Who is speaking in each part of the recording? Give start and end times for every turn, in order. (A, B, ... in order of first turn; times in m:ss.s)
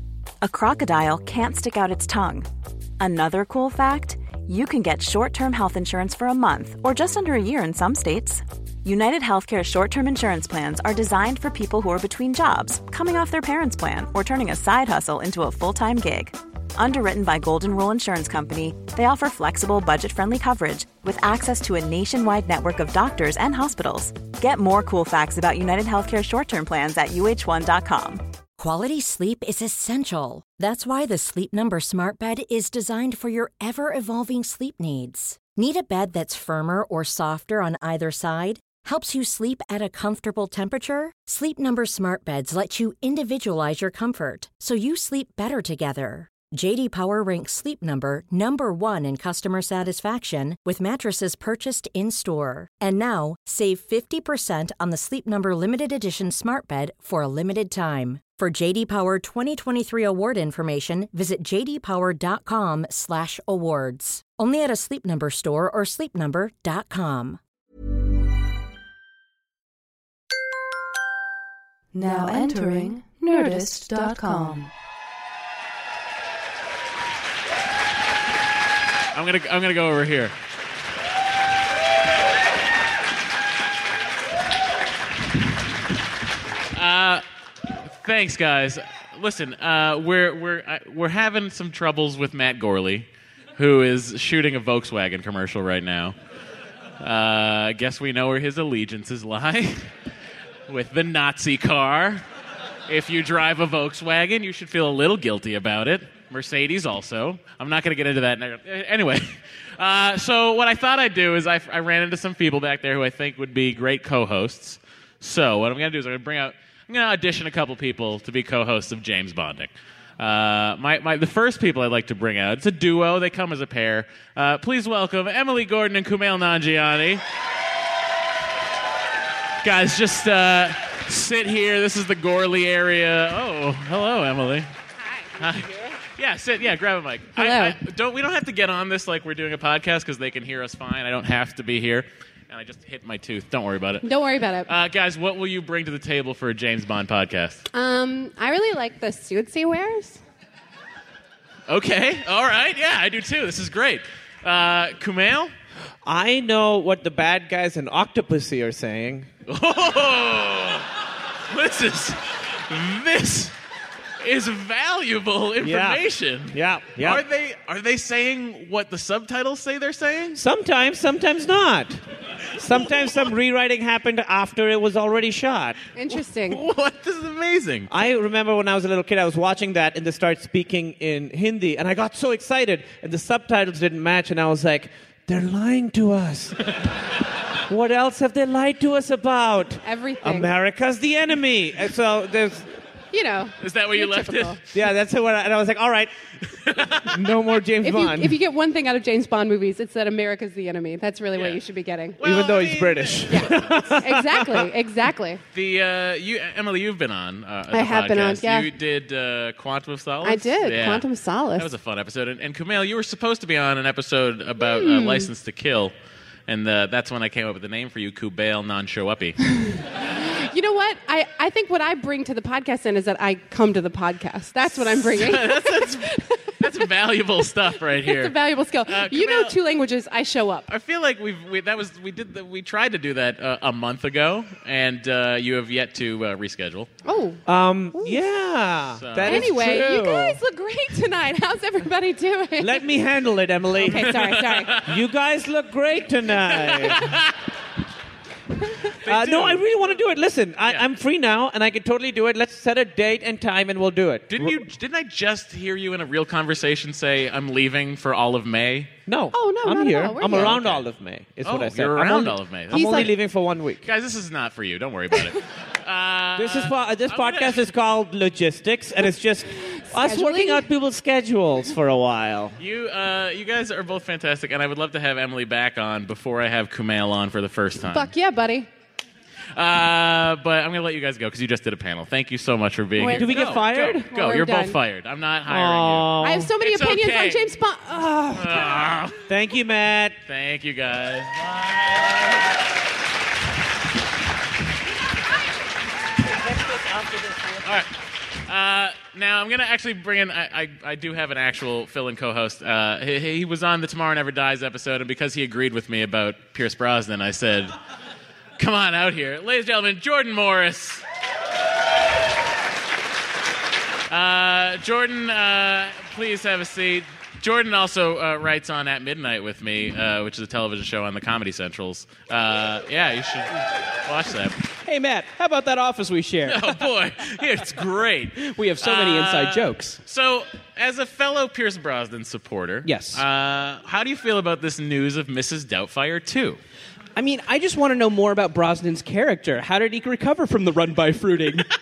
0:00.4-0:02.5 A
0:03.0-0:28.2 A
0:28.6-1:07.4 B
1:11.9-1:14.7 C
1:19.1-1:20.3 D
1:26.7-1:27.2 D
1:27.8-1:36.2 D
1:37.0-1:39.8 D
1:40.7-1:42.2 D
1:42.9-2:07.2 D
2:09.6-2:14.7 D
2:15.0-2:15.3 E
2:15.4-2:24.1 D
2:17.3-2:17.8 E
2:24.0-2:24.7 E
2:24.7-2:27.6 D
2:27.7-2:30.2 E
2:31.7-2:35.5 D
2:36.0-2:39.3 F
2:39.5-2:40.9 D
2:41.5-2:43.5 D
2:44.2-2:50.4 D
2:45.6-2:47.2 F
2:50.3-2:52.0 F
2:52.5-2:55.8 F
2:55.9-2:56.6 E
2:56.5-2:57.9 D
2:57.9-3:06.6 F
3:07.7-3:12.7 F
3:09.8-3:10.5 E
3:13.1-3:14.6 E
3:13.6-3:14.6 D
3:14.7-3:16.1 F
3:16.6-3:17.1 D
3:17.1-3:18.4 F
3:17.8-3:22.2 E
3:21.3-3:21.6 D
3:22.2-3:23.8 D
3:22.2-3:24.4 F
3:23.3-3:25.4 E
3:24.3-3:24.6 D
3:25.5-3:35.9 D
3:27.7-3:28.7 E
3:30.2-3:31.7 E
3:34.6-3:35.3 E
3:36.5-3:39.4 D
3:39.6-3:46.3 E
3:44.6-3:49.6 D
3:47.9-3:50.6 E
3:50.7-3:56.9 D
3:57.0-3:57.4 E
3:57.4-4:00.4 F
3:57.9-3:58.2 E
3:59.0-3:59.5 D
3:59.2-4:02.9 E
4:02.6-4:04.1 F
4:03.7-4:04.9 E
4:03.8-4:05.0 D
4:04.8-4:07.1 F
4:06.6-4:07.3 D
4:09.0-4:10.0 D
4:09.0-4:14.6 F
4:14.3-4:18.9 D
4:19.1-4:23.8 F
4:19.3-4:20.6 E
4:20.3-4:20.8 D
4:21.4-4:23.1 D
4:22.7-4:23.1 E
4:23.8-4:27.6 D
4:26.4-4:32.6 F
4:29.9-4:30.7 E
4:32.6-4:38.1 D
4:37.9-4:38.7 E
4:39.5-4:47.6 D
4:43.0-4:44.8 E
4:43.1-4:44.1 F
4:45.5-4:46.5 F
4:46.2-4:48.9 E
4:48.3-4:49.2 D
4:49.3-4:50.2 F
4:50.2-4:52.4 D
4:57.6-4:57.9 D
4:58.4-5:07.7 D
5:08.6-5:11.0 D
5:14.1-5:24.6 D
5:24.8-5:26.8 G
5:26.4-5:36.6 D
5:28.4-5:30.0 G
5:32.8-5:33.2 G
5:37.2-5:41.6 G